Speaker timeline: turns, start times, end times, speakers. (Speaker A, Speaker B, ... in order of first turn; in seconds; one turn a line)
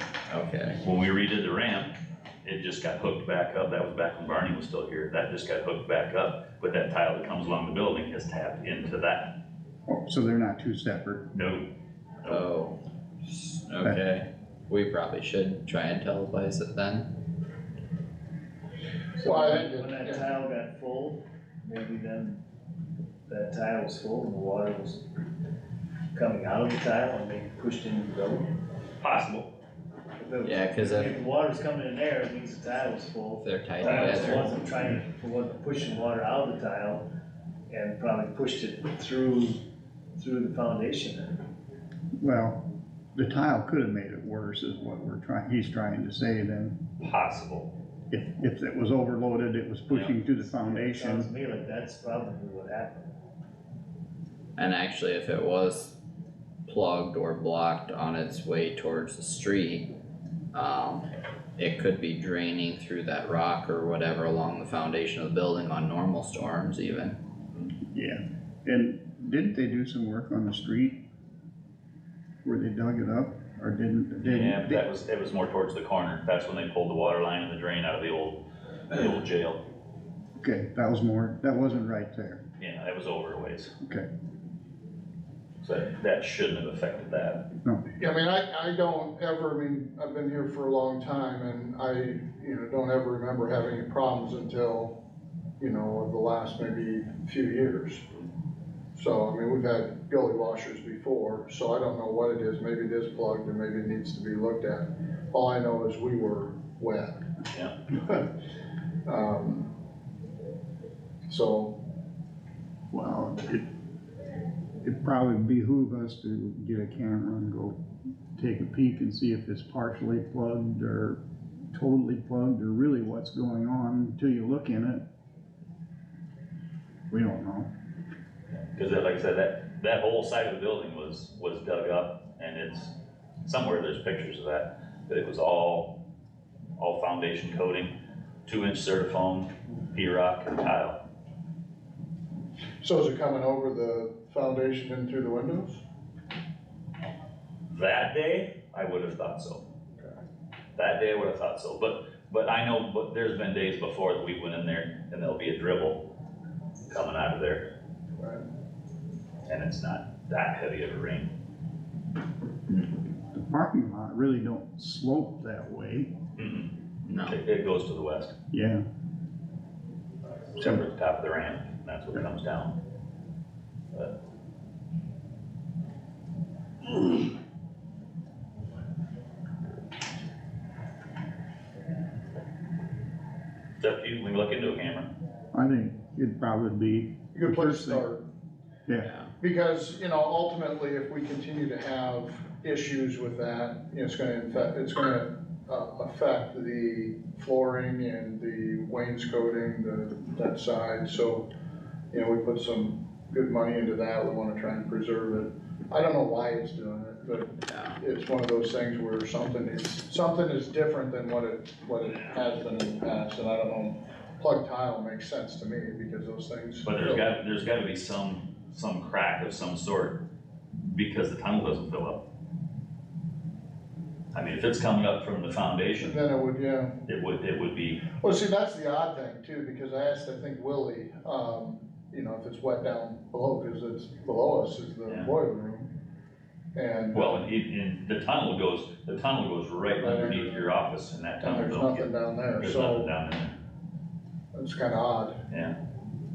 Speaker A: 0.3-0.8
Speaker B: 0.8-1.9
Speaker B: 2.4-9.3
Speaker C: 9.9-11.3
Speaker B: 11.3-11.7
Speaker A: 12.3-17.1
Speaker D: 19.2-22.4
Speaker E: 19.2-20.2
Speaker D: 23.3-25.1
Speaker D: 26.1-28.5
Speaker B: 29.0-29.5
Speaker D: 30.2-37.0
Speaker A: 30.4-31.1
Speaker A: 33.4-34.4
Speaker B: 33.9-34.3
Speaker D: 37.7-39.6
Speaker D: 40.2-41.4
Speaker C: 42.2-42.6
Speaker C: 43.1-46.8
Speaker B: 47.0-47.7
Speaker C: 48.1-51.3
Speaker D: 50.5-53.0
Speaker A: 54.6-55.9
Speaker A: 56.7-59.9
Speaker A: 60.5-61.0
Speaker A: 61.6-67.2
Speaker C: 67.9-71.0
Speaker C: 72.4-74.8
Speaker B: 74.2-79.6
Speaker C: 80.4-82.4
Speaker B: 82.6-83.7
Speaker B: 85.6-87.4
Speaker E: 88.0-95.0
Speaker E: 95.6-98.1
Speaker E: 98.9-107.2
Speaker E: 109.0-109.7
Speaker E: 111.3-111.8
Speaker C: 112.9-113.6
Speaker C: 114.8-117.8
Speaker C: 118.3-121.2
Speaker C: 121.7-125.0
Speaker C: 127.1-127.7
Speaker B: 128.5-132.9
Speaker B: 133.4-135.9
Speaker B: 136.8-137.9
Speaker B: 138.4-141.0
Speaker E: 142.8-145.8
Speaker B: 147.7-149.6
Speaker B: 150.8-156.0
Speaker B: 156.9-157.7
Speaker E: 158.2-158.4
Speaker B: 159.4-161.3
Speaker C: 163.3-166.1
Speaker B: 166.3-168.3
Speaker A: 167.0-167.4
Speaker C: 168.5-168.8
Speaker B: 170.5-172.8
Speaker B: 183.8-185.1
Speaker C: 185.5-188.0
Speaker E: 187.3-188.2
Speaker A: 189.0-189.3
Speaker E: 189.4-201.5
Speaker E: 202.1-217.3
Speaker A: 207.7-207.9
Speaker B: 216.8-220.2
Speaker B: 220.8-222.2
Speaker B: 224.3-226.2
Speaker E: 226.0-227.0
Speaker B: 227.1-228.0
Speaker E: 228.2-235.9
Speaker E: 236.8-237.5
Speaker B: 237.1-243.6
Speaker E: 240.0-240.8
Speaker E: 241.4-243.1
Speaker E: 244.5-245.4
Speaker B: 245.5-245.8